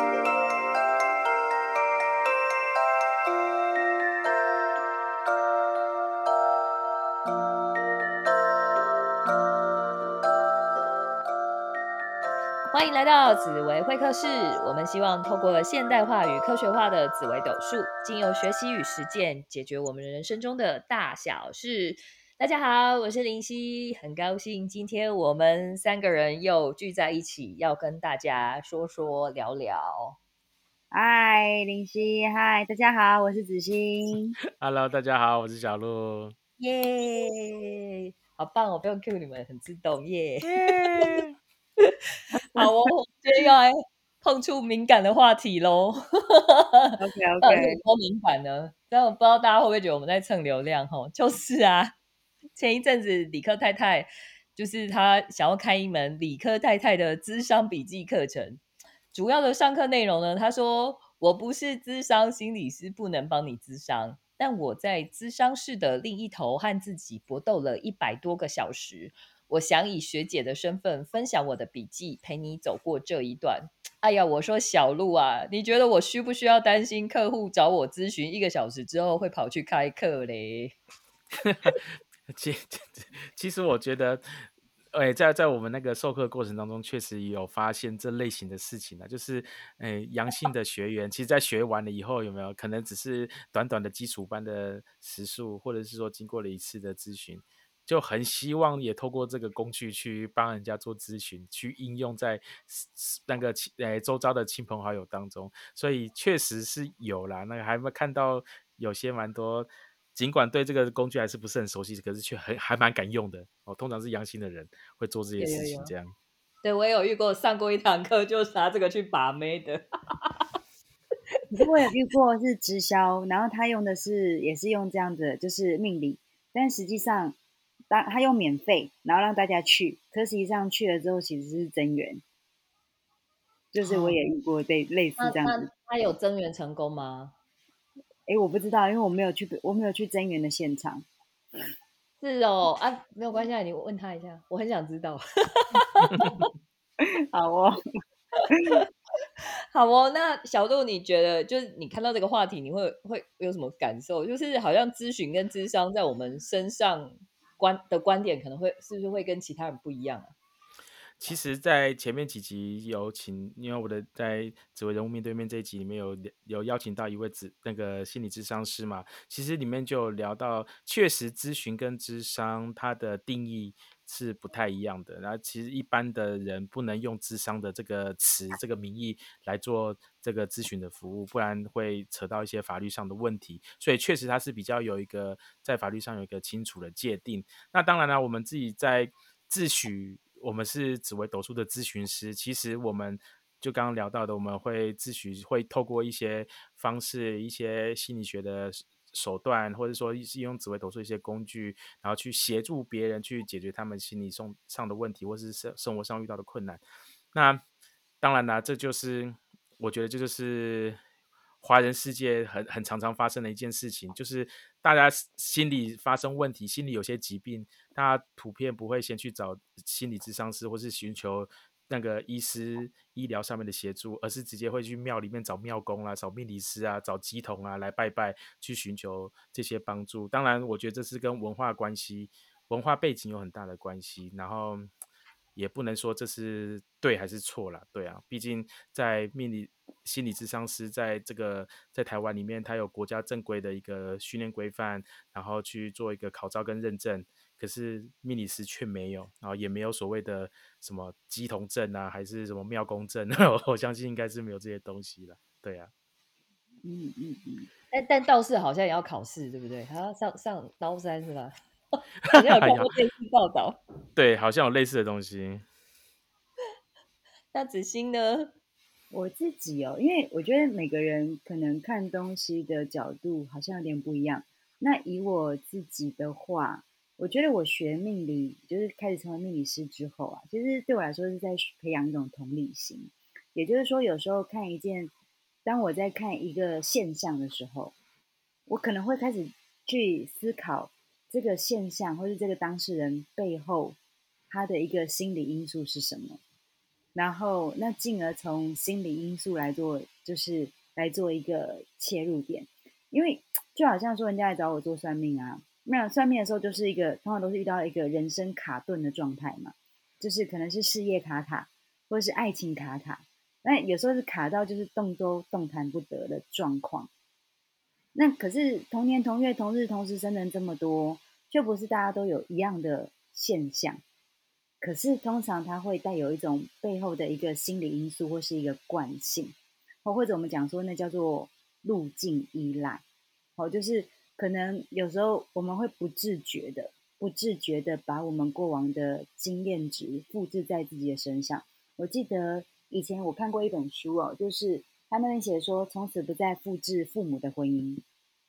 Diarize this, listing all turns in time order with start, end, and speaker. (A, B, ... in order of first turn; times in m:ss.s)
0:12.7-0:30.2 A
0:30.9-0:34.4 B
0:34.6-0:36.4 C
0:36.6-0:41.1 A
0:40.4-0:41.4 C
0:41.8-0:52.0 A
0:47.0-0:47.8 B
0:52.6-0:58.6 A
0:59.1-1:20.8 A
1:21.4-1:56.2 C
1:55.4-1:55.9 A
1:56.6-2:00.5 A
2:01.5-2:07.4 B
2:07.9-2:12.2 B
2:13.7-2:15.7 B
2:13.8-2:14.2 A
2:15.2-2:17.3 A
2:18.3-2:21.1 B
2:22.2-2:26.5 A
2:26.1-2:26.5 C
2:27.0-2:27.8 B
2:28.4-2:28.8 A
2:28.5-2:28.8 B
2:29.4-2:40.3 A
2:41.2-3:26.8 C
3:27.3-3:27.6 C
3:28.2-3:31.0 C
3:31.6-3:54.9 C
3:55.6-4:15.9 C
4:16.8-4:17.7 B
4:17.9-4:21.6 A
4:22.2-4:23.8 A
4:22.3-4:22.9 C
4:24.2-4:25.6 C
4:27.5-4:28.5 A
4:29.1-4:45.1 B
4:45.6-4:47.9 B
4:48.7-4:54.0 B
4:54.5-4:56.4 B
4:57.2-5:17.1 B
5:18.2-5:24.0 B
5:24.8-5:33.0 B
5:33.6-5:48.0 B